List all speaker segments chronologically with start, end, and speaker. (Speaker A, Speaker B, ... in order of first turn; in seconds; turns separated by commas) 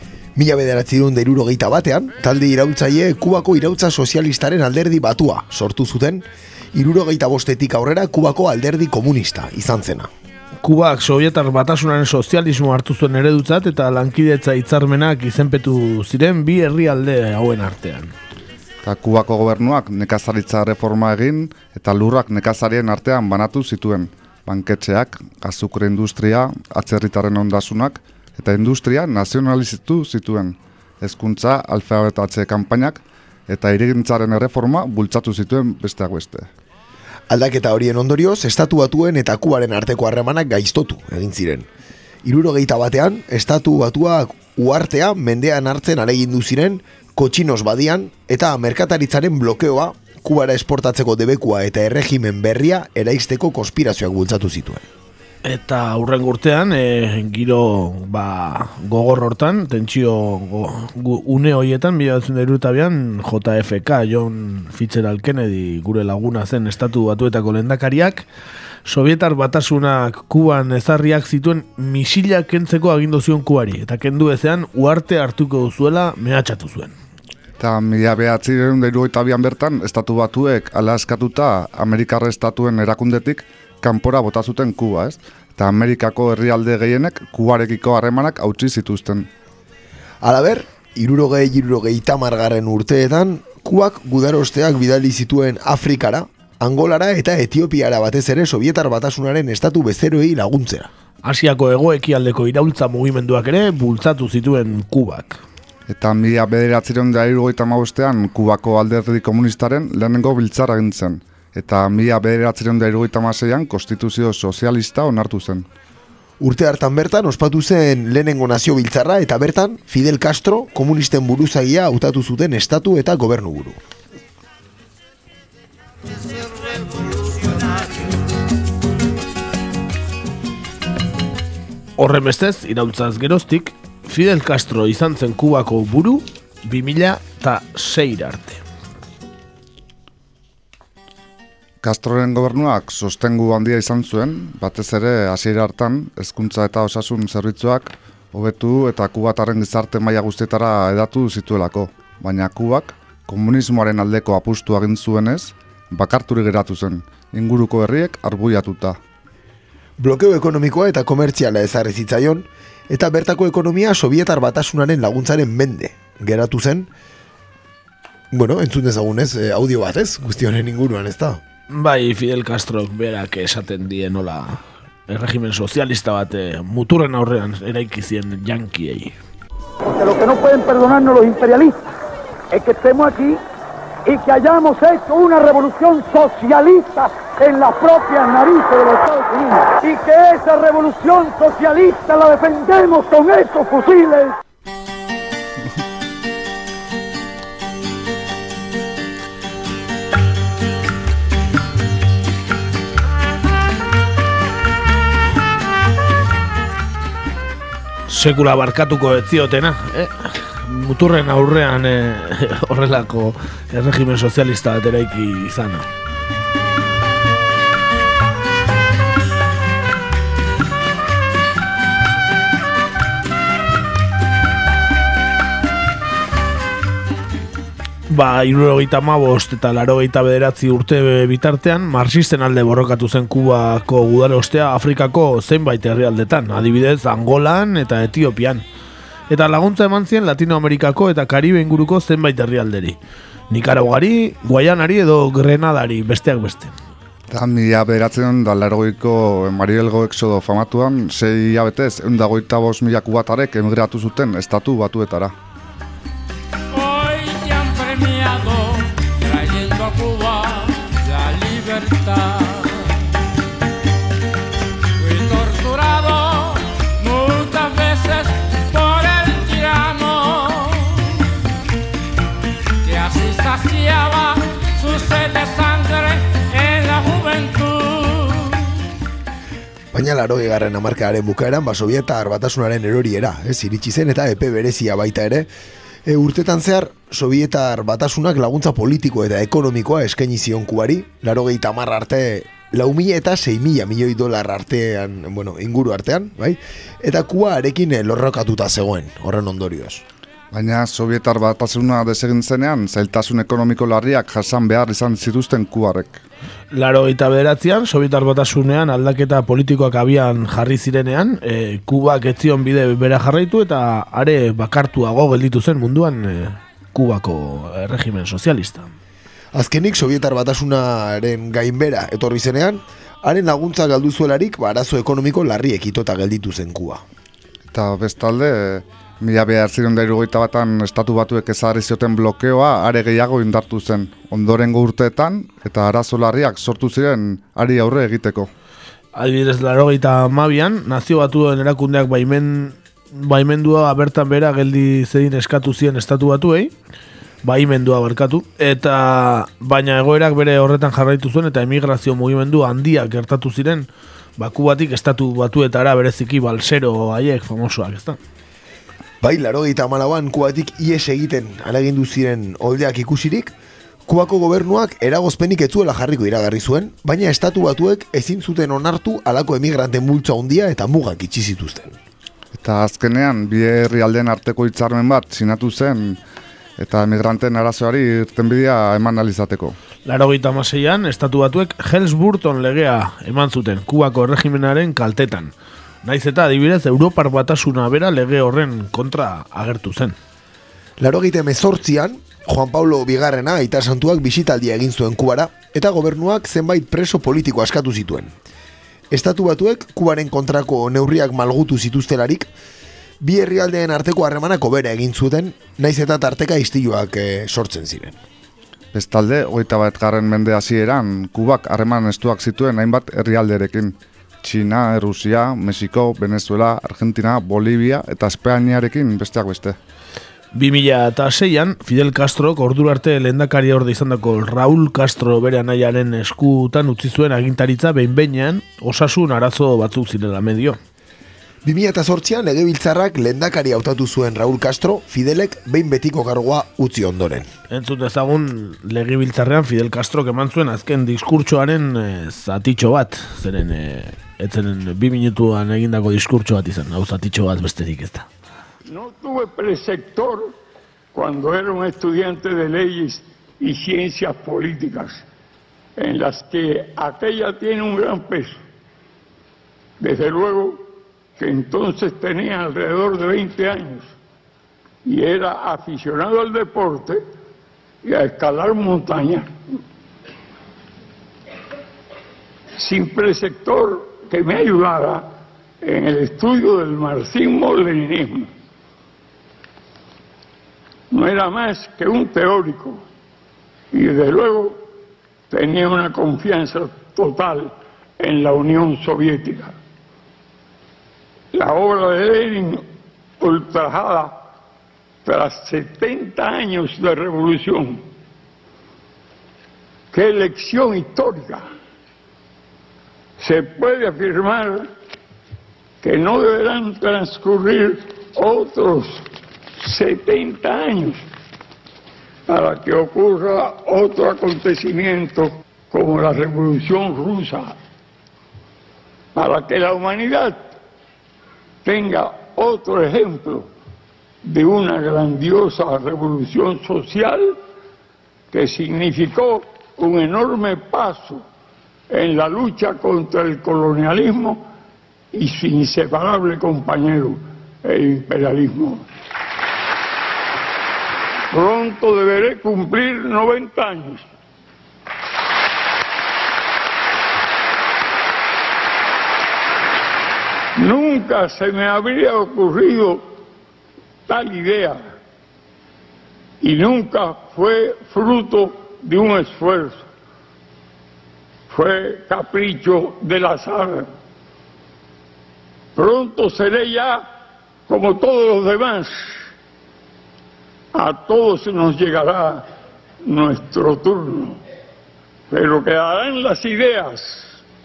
Speaker A: 0.3-10.1, Speaker B: 10.6-18.1, Speaker C: 18.8-36.5, Speaker A: 37.3-41.7, Speaker A: 42.2-54.9, Speaker B: 55.4-68.2, Speaker B: 68.8-76.9, Speaker C: 77.6-89.3, Speaker A: 90.2-100.9, Speaker B: 101.2-105.4, Speaker C: 105.9-115.7, Speaker A: 116.4-123.8, Speaker B: 132.0-138.6, Speaker C: 141.8-159.0, Speaker A: 160.0-166.9, Speaker A: 168.3-171.4, Speaker B: 171.7-179.1, Speaker D: 179.8-181.9, Speaker D: 182.5-183.4, Speaker D: 184.1-194.3, Speaker B: 208.1-215.9, Speaker B: 228.1-238.6, Speaker B: 239.3-243.0, Speaker B: 243.5-246.7, Speaker C: 247.3-255.3, Speaker E: 256.7-263.0, Speaker E: 265.0-271.2, Speaker E: 272.8-278.7, Speaker A: 279.9-285.5, Speaker A: 286.1-300.0, Speaker C: 300.5-306.2, Speaker B: 306.7-318.9, Speaker A: 319.5-327.0, Speaker C: 327.7-338.5, Speaker B: 339.1-346.7, Speaker B: 347.4-353.9, Speaker B: 354.4-358.2, Speaker A: 359.2-363.5, Speaker A: 364.1-372.0, Speaker C: 372.5-376.2, Speaker C: 376.8-379.8, Speaker B: 380.0-385.5, Speaker B: 386.0-390.1, Speaker A: 391.0-398.3, Speaker A: 399.1-402.5, Speaker A: 403.2-408.2, Speaker C: 408.9-419.8, Speaker B: 420.5-430.8, Speaker A: 431.6-437.5, Speaker B: 437.7-448.3, Speaker F: 448.9-450.5, Speaker F: 451.1-455.2, Speaker F: 456.0-458.6, Speaker F: 460.0-460.8, Speaker F: 461.4-464.1, Speaker F: 465.0-467.2, Speaker F: 468.0-469.5, Speaker F: 472.8-475.3, Speaker F: 475.8-478.5, Speaker F: 481.1-483.0, Speaker F: 483.9-484.8, Speaker F: 485.5-489.7, Speaker F: 491.5-492.8, Speaker F: 493.4-494.4, Speaker F: 495.2-498.0, Speaker F: 500.1-501.6, Speaker F: 503.4-504.9, Speaker F: 506.0-509.2, Speaker F: 509.8-511.2, Speaker F: 512.5-517.8, Speaker F: 519.3-520.7, Speaker F: 521.8-523.7, Speaker F: 524.4-527.6, Speaker F: 528.5-531.4, Speaker F: 532.1-534.7, Speaker F: 535.3-539.1, Speaker F: 541.5-544.2, Speaker F: 550.8-553.3, Speaker F: 554.3-555.0, Speaker F: 556.6-560.0, Speaker F: 561.7-564.1, Speaker F: 565.9-567.2, Speaker F: 567.9-569.4, Speaker F: 570.9-572.6, Speaker F: 573.2-574.6, Speaker F: 575.5-577.6